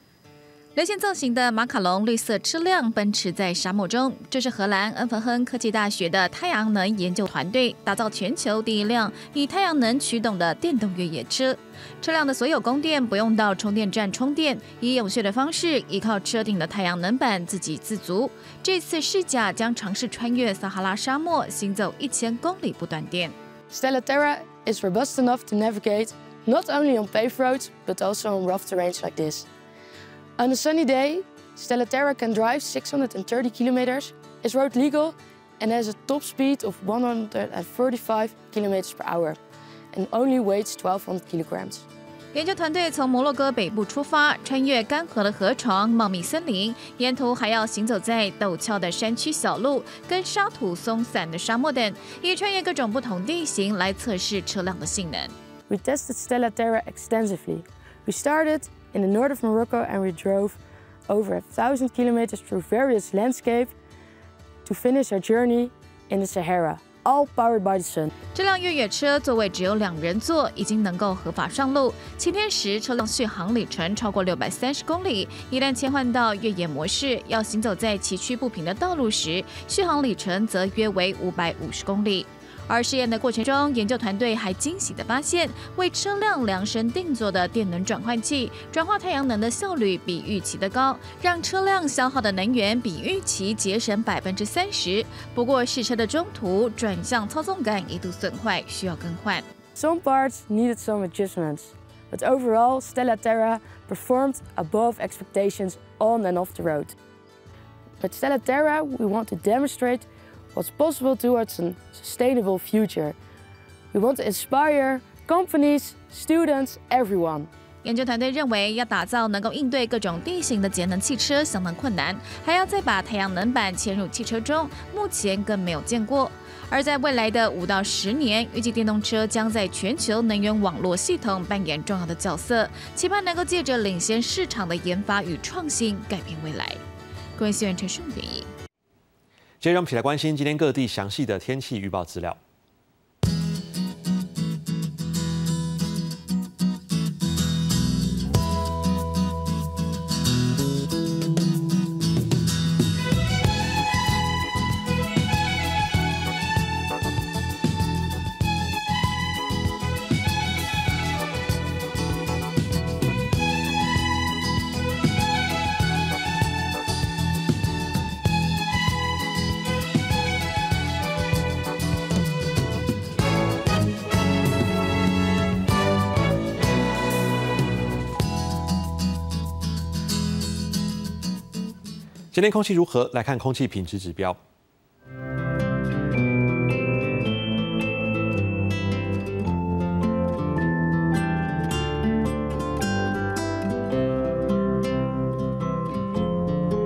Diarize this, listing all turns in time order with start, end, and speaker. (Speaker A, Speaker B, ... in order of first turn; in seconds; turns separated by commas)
Speaker A: 0.8-23.3, Speaker B: 23.7-29.5, Speaker B: 30.4-39.4, Speaker B: 39.9-41.8, Speaker A: 42.3-55.3, Speaker B: 55.7-63.7, Speaker B: 64.6-68.1, Speaker A: 68.3-99.4, Speaker B: 99.8-106.9, Speaker B: 108.0-113.2, Speaker B: 113.9-117.5, Speaker A: 117.8-136.8, Speaker A: 137.4-138.5, Speaker C: 139.6-142.4, Speaker C: 182.3-184.4